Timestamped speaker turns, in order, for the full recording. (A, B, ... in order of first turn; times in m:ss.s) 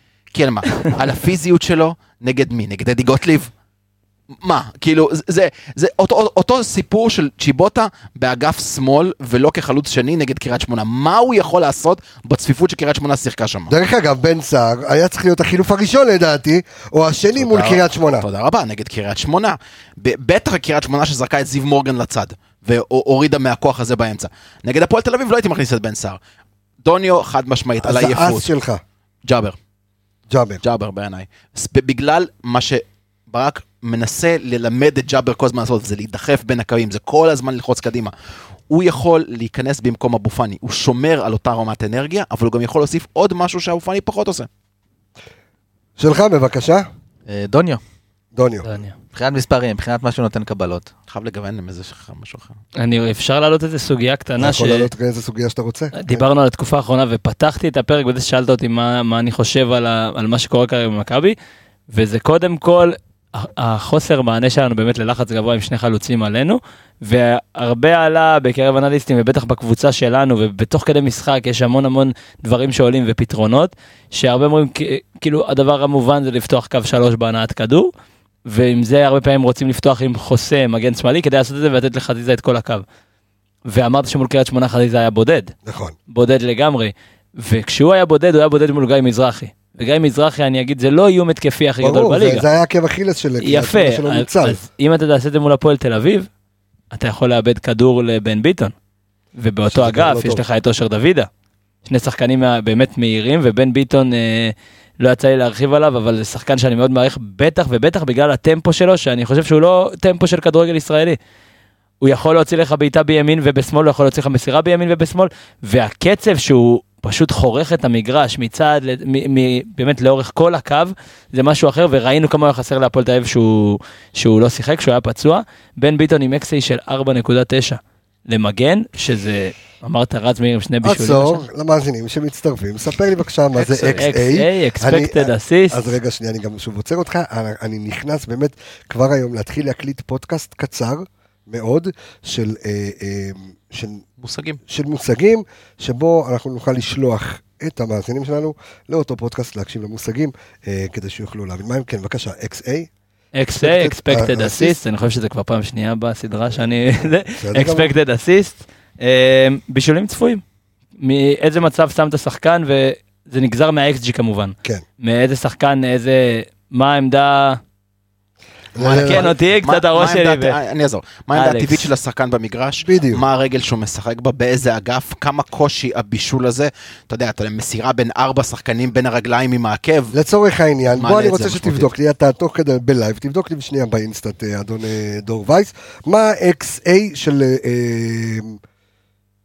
0:00.3-0:03.5 A
0:04.4-0:13.7 A
0:13.7-0:18.3 B
0:17.4-0:26.2 A
0:26.8-0:28.5 A
0:27.8-0:28.8 B
0:29.2-0:29.6 A
0:30.3-0:30.6 B
0:30.6-0:38.1 A
0:38.7-0:44.5 A
0:46.0-0:46.9 B
0:47.3-0:47.8 C
0:48.4-0:48.7 B
0:48.6-0:49.0 D
0:49.1-0:50.9 C
0:51.1-0:52.6 A
0:52.8-0:54.9 D
0:54.4-0:56.2 B
0:56.0-1:01.4 D
1:01.9-1:17.9 D
1:18.5-1:22.8 D
1:23.7-1:25.5 D
1:25.6-1:26.0 B
1:26.1-1:32.5 D
1:31.8-1:34.6 B
1:33.4-1:36.3 D
1:36.9-1:38.7 D
1:39.4-1:41.3 D
1:39.7-1:40.4 B
1:41.9-1:51.2 D
1:52.0-2:11.4 D
2:10.8-2:24.0 B
2:13.6-2:14.1 A
2:14.0-2:15.9 D
2:24.2-2:24.6 A
2:24.7-2:32.9 B
2:33.4-2:40.4 D
2:33.5-2:34.8 B
2:37.4-2:37.9 B
2:41.0-2:47.6 D
2:48.8-2:49.3 B
2:48.8-3:00.1 A
2:48.9-2:50.6 D
2:51.3-2:51.9 D
2:52.8-2:53.2 B
3:00.1-3:08.6 B
3:01.0-3:01.9 A